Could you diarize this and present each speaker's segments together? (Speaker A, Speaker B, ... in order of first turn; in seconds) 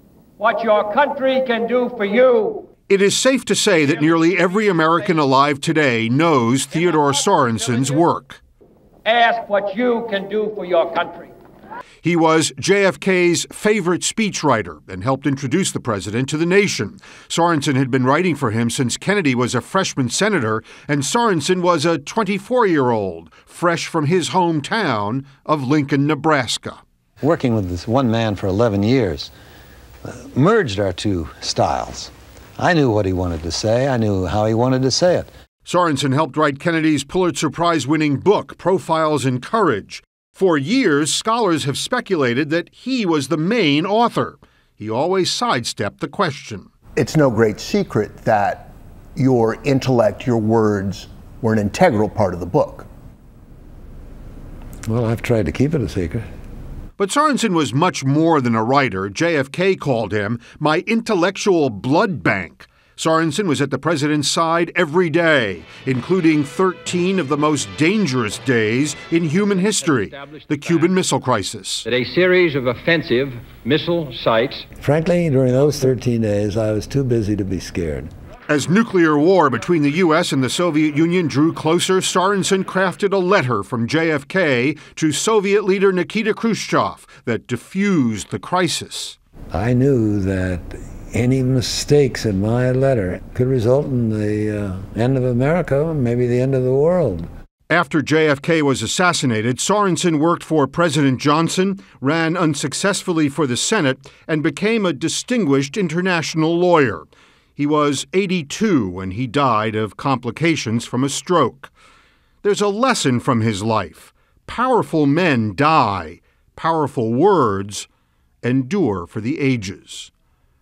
Speaker A: 0.4-2.7, 9.1-11.3
Speaker B: 2.9-8.4, 12.0-26.8, 35.6-46.7, 57.0-71.9, 78.5-89.2, 97.7-107.1, 107.6-111.7, 112.4-117.9, 118.4-120.1
Speaker C: 27.2-29.3, 30.1-35.3, 54.9-56.3, 74.8-78.1, 89.5-97.3
Speaker D: 47.0-52.9
Speaker E: 69.8-70.8, 71.8-74.7